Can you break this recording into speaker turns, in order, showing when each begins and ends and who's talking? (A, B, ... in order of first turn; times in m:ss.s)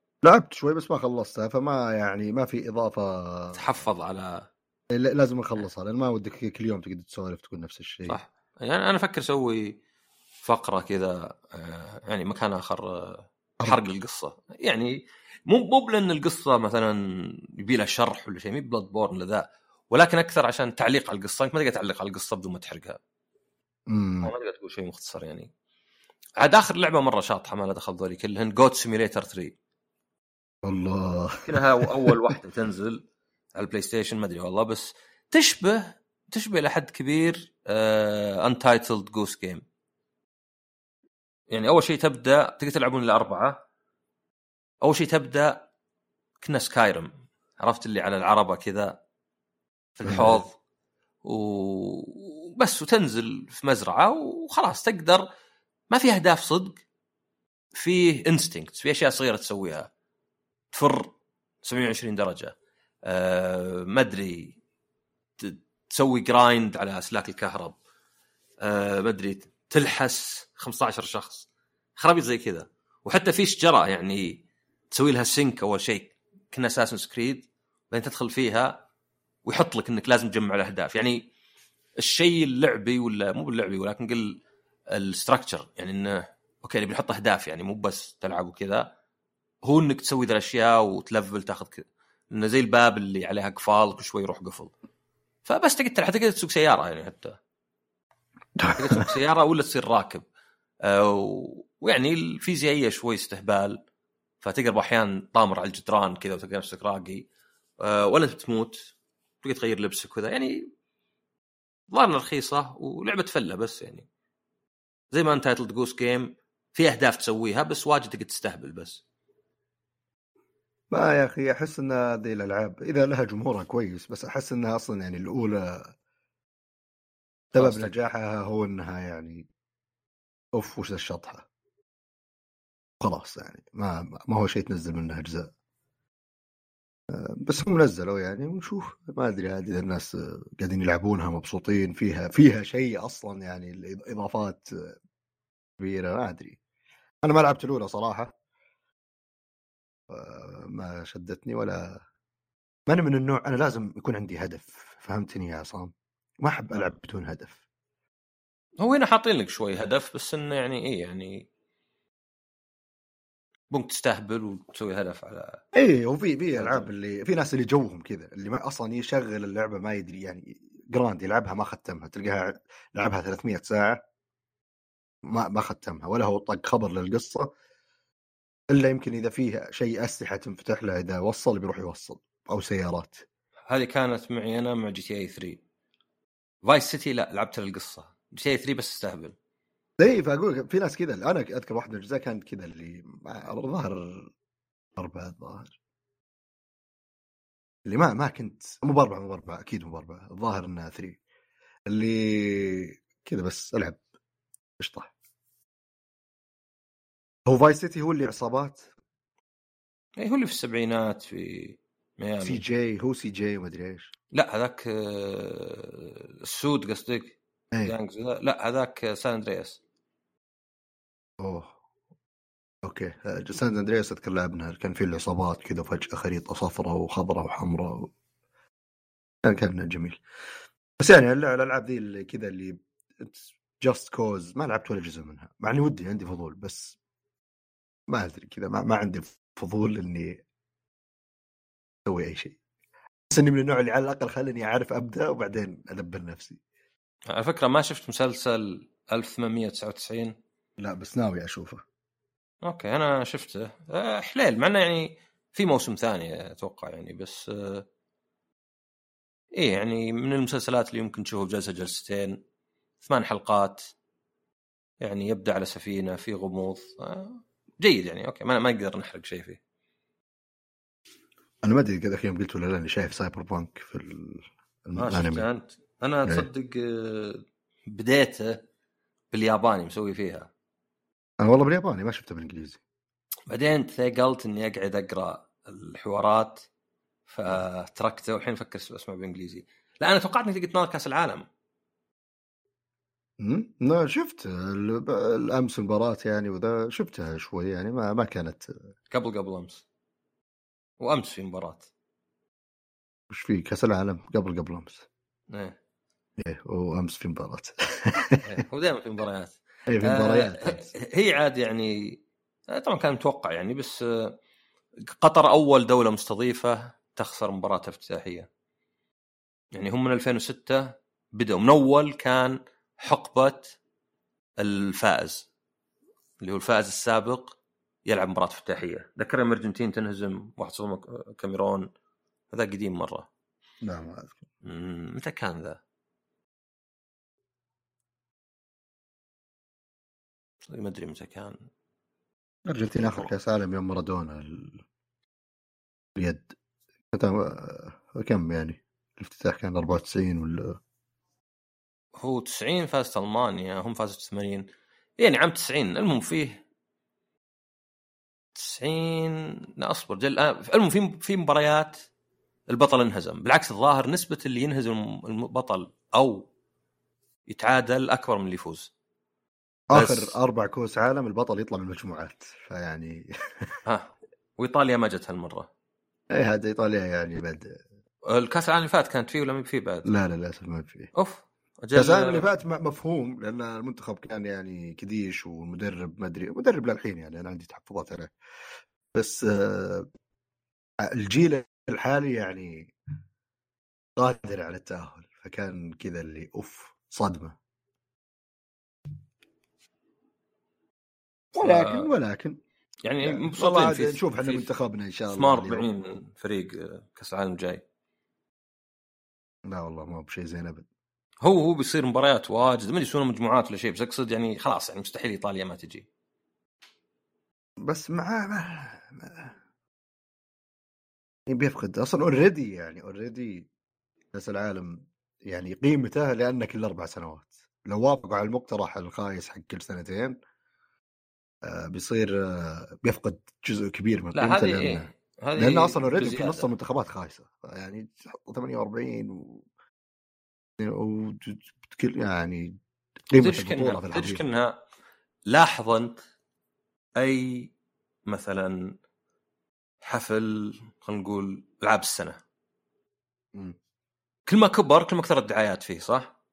0:00.2-0:03.6 A
0:03.5-0:04.5 B
0:04.9-0:08.2 A
0:08.1-0:09.8 B
0:10.4-0:15.0 B
0:15.5-0:17.0 B
0:17.6-0:23.0 B
0:23.9-0:24.3 A
0:24.2-0:25.5 B
0:26.4-0:29.6 B
0:30.6-0:32.1 A
0:31.4-0:33.0 B
0:33.6-0:39.6 B
0:41.5-0:43.6 B
0:44.8-0:45.7 B
0:46.4-0:49.0 B
0:50.0-0:50.6 B
0:50.1-0:50.4 A
0:51.2-0:55.3 B
0:55.9-0:56.8 B
0:57.8-0:59.9 B
1:00.7-1:02.5 B
1:03.1-1:04.6 B
1:05.4-1:07.8 B
1:08.6-1:18.8 B
1:19.4-1:21.3 B
1:22.0-1:28.9 B
1:29.6-1:34.7 B
1:35.4-1:37.4 B
1:38.6-1:39.1 A
1:38.7-1:40.2 B
1:40.8-1:43.8 B
1:44.4-1:47.3 B
1:47.8-1:50.7 B
1:51.9-1:54.1 B
1:55.1-1:59.0 B
2:00.9-2:05.9 A
2:07.5-2:07.9 B
2:07.6-2:09.5 A
2:10.5-2:11.5 A
2:13.0-2:15.5 A
2:17.1-2:25.0 A
2:25.8-2:26.6 A
2:27.2-2:28.3 A
2:30.1-2:32.0 A
2:32.9-2:37.6 A
2:38.8-2:41.5 B
2:43.7-2:45.6 B
2:45.7-2:54.0 A
2:46.6-2:46.9 B
2:55.3-2:57.5 A
2:58.7-3:03.3 A
3:03.7-3:05.6 B
3:06.6-3:09.4 B
3:10.0-3:14.3 A
3:15.0-3:15.8 A
3:17.9-3:21.2 A
3:21.9-3:24.0 A
3:24.8-3:25.1 A
3:27.5-3:28.9 A
3:30.2-3:32.6 B
3:32.4-3:34.1 A
3:34.3-3:39.8 B
3:41.4-3:41.8 A
3:42.8-3:48.1 A
3:49.4-3:50.2 A
3:51.0-3:57.0 A
3:58.1-4:00.4 A
4:02.0-4:02.6 A
4:03.3-4:06.6 A
4:07.3-4:10.4 B
4:10.8-4:11.8 A
4:12.6-4:17.8 B
4:19.6-4:22.4 B
4:23.0-4:23.9 B
4:25.0-4:29.6 B
4:31.6-4:35.4 A
4:35.0-4:38.6 B
4:39.3-4:40.5 B
4:41.4-4:42.8 A
4:43.5-4:46.7 B
4:47.3-4:51.5 B
4:53.4-4:58.8 A
4:59.1-4:59.8 B
5:01.0-5:01.9 B
5:03.3-5:05.1 A
5:05.5-5:05.8 B
5:06.4-5:08.4 A
5:08.4-5:14.3 B
5:09.9-5:10.9 A
5:15.1-5:18.5 B
5:19.7-5:23.8 B
5:24.6-5:25.5 B
5:26.4-5:31.9 B
5:32.5-5:33.3 B
5:33.8-5:34.4 A
5:34.6-5:35.8 B
5:40.7-5:41.7 B
5:42.7-5:44.8 A
5:46.2-5:46.6 A
5:47.1-5:50.8 A
5:52.2-5:54.7 B
5:55.2-5:56.6 B
5:58.6-6:02.1 B
6:02.7-6:06.5 B
6:07.5-6:08.9 B
6:09.9-6:13.8 A
6:09.9-6:10.4 B
6:13.9-6:15.7 B
6:16.3-6:17.8 A
6:18.3-6:20.1 B
6:20.1-6:21.1 A
6:21.1-6:22.5 B
6:21.9-6:28.3 A
6:29.1-6:30.1 A
6:31.0-6:32.9 A
6:34.2-6:37.6 A
6:41.6-6:42.1 B
6:41.6-6:42.6 A
6:43.0-6:44.7 B
6:43.2-6:45.9 A
6:45.3-6:47.8 B
6:49.7-6:50.9 A
6:51.4-6:56.1 B
6:57.8-6:59.6 A
7:01.5-7:03.7 A
7:04.3-7:10.4 A
7:11.6-7:19.6 A
7:14.4-7:16.6 B
7:20.8-7:22.8 A
7:23.3-7:24.4 A
7:23.4-7:24.8 B
7:25.5-7:26.2 B
7:27.2-7:27.7 B
7:28.3-7:28.9 B
7:30.0-7:32.4 B
7:34.5-7:36.3 B